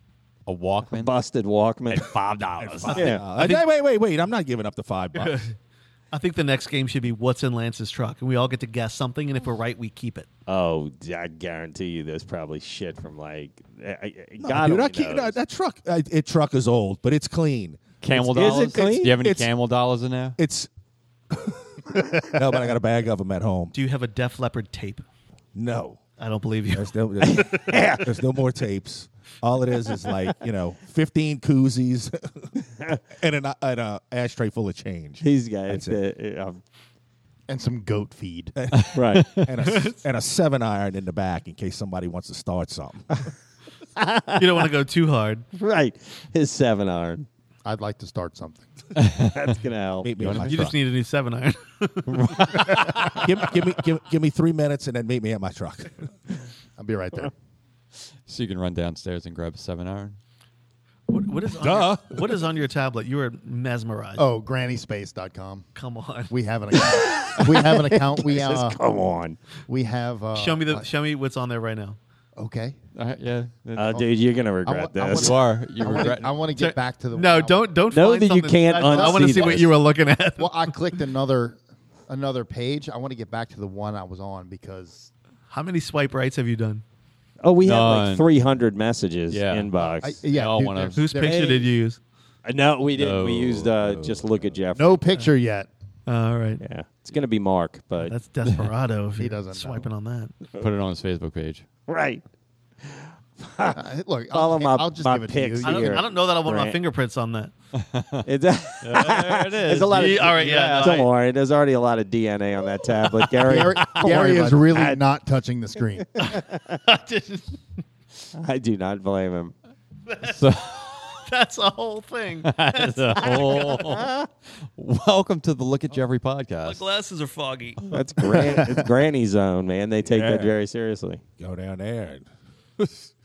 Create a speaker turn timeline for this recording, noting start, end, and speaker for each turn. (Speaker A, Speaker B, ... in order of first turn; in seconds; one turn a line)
Speaker A: 0.5-1.1
Speaker B: 0.9-3.2
Speaker A: 1.9-3.0
Speaker C: 2.6-5.5
Speaker D: 3.1-3.6
Speaker D: 5.1-5.5
Speaker D: 6.1-10.3
Speaker B: 10.5-15.4
Speaker C: 14.4-19.5
Speaker A: 18.0-20.4
Speaker B: 18.2-19.1
Speaker C: 20.4-20.7
Speaker C: 21.3-23.7
Speaker D: 23.7-25.0
Speaker C: 25.5-26.0
Speaker D: 26.2-26.9
Speaker C: 26.7-32.5
Speaker B: 27.2-28.1
Speaker C: 33.1-36.0
Speaker B: 35.2-36.6
Speaker E: 37.5-38.5
Speaker C: 38.5-43.2
Speaker B: 38.9-39.3
Speaker A: 39.1-39.5
Speaker D: 39.7-39.9
Speaker B: 44.0-44.7
Speaker D: 44.4-45.4
Speaker B: 45.5-47.2
Speaker E: 47.6-48.6
Speaker A: 49.0-49.4
Speaker B: 49.2-50.1
Speaker C: 50.0-50.8
Speaker A: 50.2-50.7
Speaker D: 50.4-53.2
Speaker A: 52.1-53.0
Speaker C: 53.0-56.1
Speaker E: 56.8-57.3
Speaker A: 58.3-60.1
Speaker D: 61.1-64.2
Speaker C: 61.5-62.4
Speaker E: 64.2-65.7
Speaker D: 65.7-66.3
Speaker E: 66.3-68.8
Speaker B: 66.8-69.4
Speaker E: 69.7-70.8
Speaker D: 70.3-72.0
Speaker E: 72.4-72.8
Speaker A: 72.9-74.0
Speaker B: 73.8-75.4
Speaker E: 74.6-77.7
Speaker A: 75.1-76.4
Speaker D: 76.5-80.7
Speaker B: 77.9-79.7
Speaker E: 78.8-79.7
Speaker E: 80.4-85.1
Speaker D: 85.5-86.8
Speaker B: 87.4-90.2
Speaker A: 87.6-88.3
Speaker A: 89.3-89.7
Speaker E: 89.8-91.7
Speaker A: 90.2-91.0
Speaker D: 91.0-92.0
Speaker B: 91.2-91.6
Speaker B: 92.4-95.0
Speaker A: 92.9-94.3
Speaker E: 94.8-95.7
Speaker D: 96.0-96.6
Speaker B: 96.6-98.1
Speaker D: 98.0-100.3
Speaker E: 99.2-99.9
Speaker A: 100.6-101.6
Speaker B: 101.9-102.2
Speaker B: 102.8-106.8
Speaker E: 103.8-106.1
Speaker D: 105.6-107.5
Speaker A: 107.8-108.2
Speaker B: 108.2-115.0
Speaker A: 108.8-111.1
Speaker D: 109.6-111.1
Speaker E: 113.4-116.2
Speaker B: 116.2-116.8
Speaker D: 116.3-117.6
Speaker B: 118.3-119.5
Speaker D: 120.1-120.4
Speaker A: 120.2-121.2
Speaker D: 121.2-124.0
Speaker A: 122.4-124.1
Speaker B: 123.9-124.3
Speaker A: 124.8-126.8
Speaker D: 126.6-128.0
Speaker B: 127.9-131.2
Speaker C: 130.1-130.5
Speaker C: 131.4-132.2
Speaker C: 132.8-133.1